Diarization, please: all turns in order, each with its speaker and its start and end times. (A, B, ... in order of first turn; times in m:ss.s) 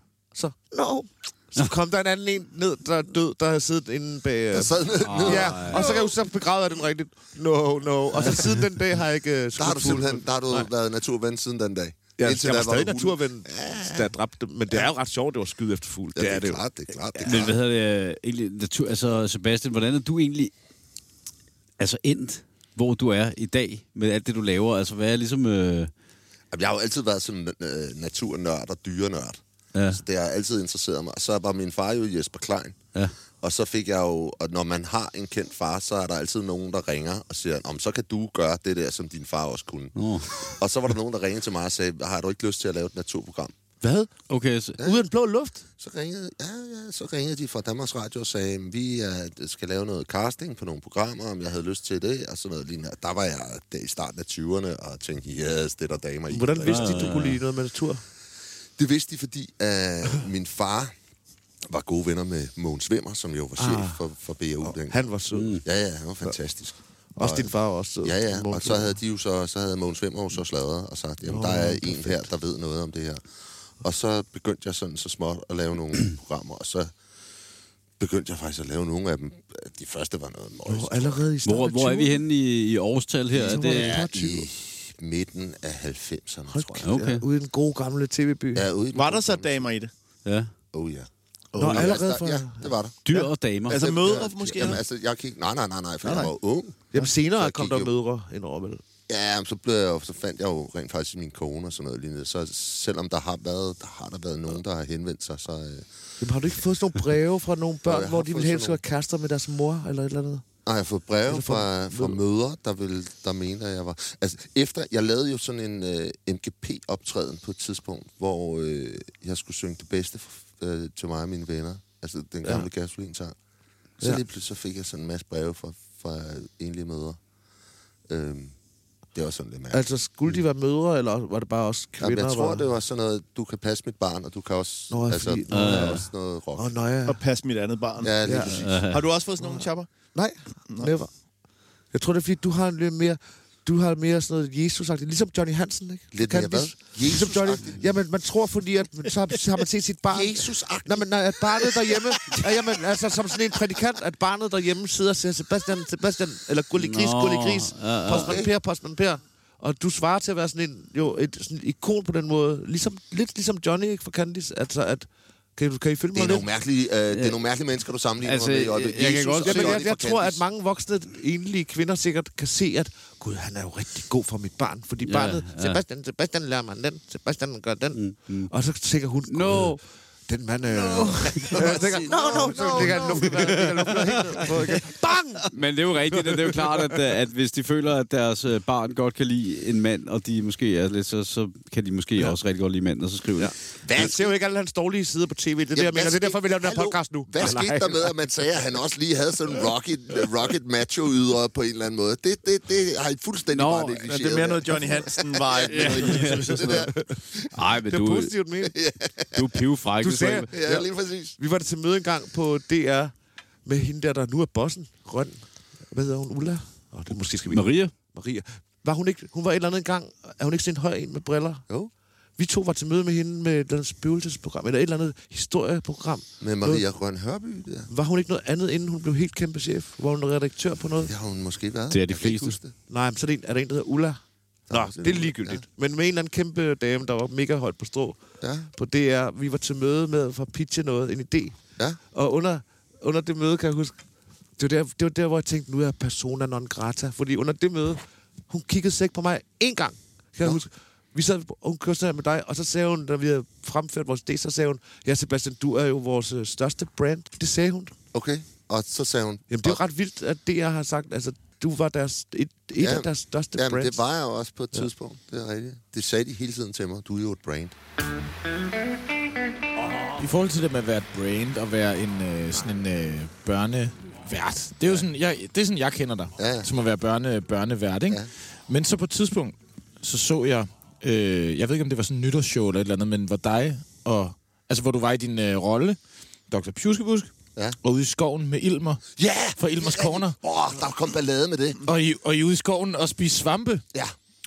0:00.3-0:10.7 A
0:04.5-0:06.0 B
0:05.0-0:06.0 C
0:09.6-0:14.1 B
0:12.2-0:16.6 A
0:16.1-0:17.6 B
0:17.2-0:20.5 C
0:21.8-0:25.9 C
0:26.5-0:32.8 B
0:29.7-0:30.0 C
0:33.4-0:43.5 B
0:40.0-0:40.6 C
0:43.8-0:44.1 A
0:44.3-0:44.8 C
0:44.8-0:45.6 A
0:45.8-0:57.2 B
0:56.3-0:58.0 A
0:56.6-0:57.4 C
0:58.8-1:00.9 B
1:01.7-1:05.0 B
1:03.6-1:04.0 A
1:04.6-1:05.6 A
1:05.3-1:05.6 C
1:05.6-1:13.2 B
1:07.2-1:09.0 A
1:11.2-1:12.3 A
1:13.8-1:16.9 B
1:18.0-1:21.3 B
1:20.7-1:22.2 A
1:21.4-1:24.0 C
1:23.3-1:24.5 A
1:23.3-1:27.0 B
1:26.5-1:28.7 A
1:26.8-1:27.2 C
1:28.5-1:29.6 B
1:28.9-1:29.9 D
1:30.2-1:30.5 C
1:30.7-1:33.0 B
1:31.5-1:33.3 A
1:31.6-1:31.9 C
1:33.0-1:34.0 C
1:33.7-1:34.8 D
1:33.7-1:37.9 B
1:36.0-1:36.3 D
1:36.9-1:38.8 A
1:39.1-1:45.9 B
1:46.2-1:50.4 A
1:47.9-1:48.8 B
1:50.6-2:03.3 B
1:51.2-1:52.2 A
2:04.0-2:07.2 B
2:08.1-2:08.5 B
2:09.1-2:09.9 B
2:09.7-2:12.7 A
2:12.0-2:16.7 B
2:14.9-2:17.2 A
2:15.5-2:16.0 C
2:17.1-2:19.9 D
2:18.0-2:18.8 B
2:18.2-2:18.5 A
2:18.6-2:19.0 C
2:19.4-2:21.1 A
2:21.9-2:46.5 A
2:26.1-2:27.8 B
2:30.1-2:32.7 B
2:36.8-2:38.4 C
2:38.1-2:38.5 B
2:46.1-2:50.4 B
2:47.1-2:47.4 C
2:48.2-2:49.8 C
2:49.4-3:05.5 A
2:55.0-2:55.8 C
2:57.9-2:58.5 C
2:59.3-2:59.8 C
3:00.8-3:04.5 B
3:00.9-3:01.8 C
3:02.4-3:04.8 C
3:05.4-3:13.5 C
3:06.1-3:07.0 A
3:13.4-3:18.1 A
3:13.8-3:14.3 B
3:15.7-3:27.5 B
3:23.6-3:26.9 D
3:25.7-3:27.1 A
3:25.8-3:26.7 C
3:27.5-3:28.3 C
3:27.8-3:28.7 A
3:28.6-3:29.6 B
3:29.3-3:30.5 C
3:30.0-3:33.1 A
3:30.5-3:31.4 B
3:33.6-3:41.6 A
3:37.5-3:37.9 C
3:42.4-3:46.8 A
3:46.4-3:47.9 B
3:47.9-3:51.1 A
3:51.0-3:52.7 B
3:51.9-3:52.6 C
3:52.9-3:58.2 A
3:54.7-3:55.6 B
3:58.4-3:58.7 B
3:58.7-4:01.6 A
4:02.1-4:03.9 A
4:04.6-4:17.9 A
4:18.1-4:19.8 B
4:19.5-4:24.0 A
4:22.8-4:27.8 B
4:30.2-4:46.0 E
4:34.8-4:35.1 B
4:36.4-4:36.7 B
4:46.5-4:49.0 E
4:49.1-4:51.8 B
4:49.6-4:50.4 E
4:51.8-4:53.8 E